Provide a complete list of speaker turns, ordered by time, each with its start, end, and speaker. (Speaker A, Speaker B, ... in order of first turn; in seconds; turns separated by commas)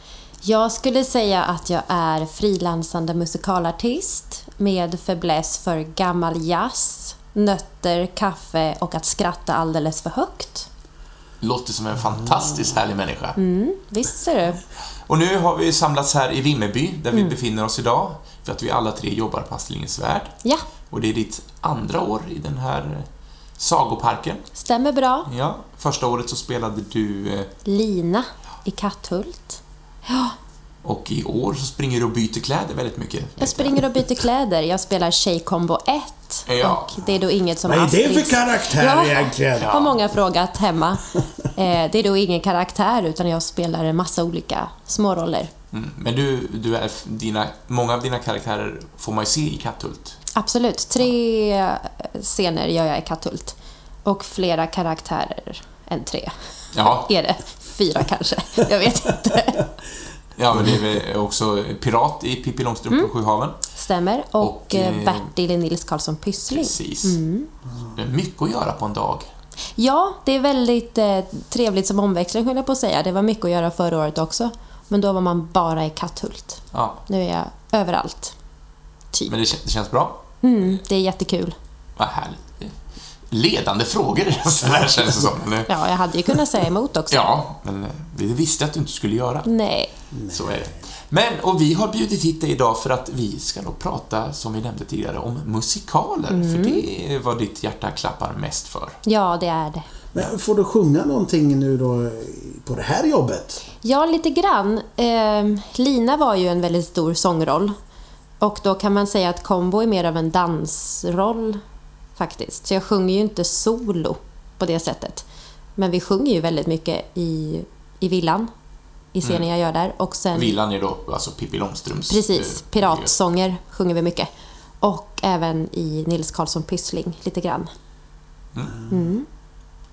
Speaker A: 0.4-10.7, Speaker B: 11.4-13.4, Speaker A: 13.4-14.6, Speaker B: 15.1-20.3, Speaker B: 20.9-23.1, Speaker B: 23.6-24.4, Speaker A: 24.6-25.3, Speaker B: 25.3-27.5, Speaker A: 27.6-30.3, Speaker B: 30.8-34.0, Speaker A: 33.4-45.5, Speaker B: 36.5-37.0, Speaker C: 37.6-39.9, Speaker B: 39.6-39.9, Speaker B: 45.7-50.2, Speaker A: 50.4-56.3, Speaker B: 56.7-57.1, Speaker A: 57.0-59.7, Speaker B: 60.4-63.6, Speaker A: 63.8-67.5, Speaker B: 64.4-65.3, Speaker B: 66.5-67.2, Speaker B: 68.0-69.3, Speaker A: 69.8-78.3, Speaker B: 76.7-77.0, Speaker B: 79.3-80.2, Speaker A: 80.4-81.5, Speaker B: 82.0-82.7, Speaker B: 83.3-85.7, Speaker A: 85.7-87.3, Speaker B: 87.1-89.5, Speaker A: 89.5-89.9, Speaker C: 90.1-90.8, Speaker B: 90.3-99.0, Speaker A: 96.3-96.8, Speaker A: 99.0-99.9, Speaker C: 100.1-103.6, Speaker A: 103.8-107.8, Speaker A: 108.4-111.6, Speaker A: 112.2-115.2, Speaker A: 115.8-118.5, Speaker A: 119.1-120.5, Speaker B: 120.3-123.1, Speaker A: 122.1-124.3, Speaker A: 124.8-127.7, Speaker A: 128.9-129.3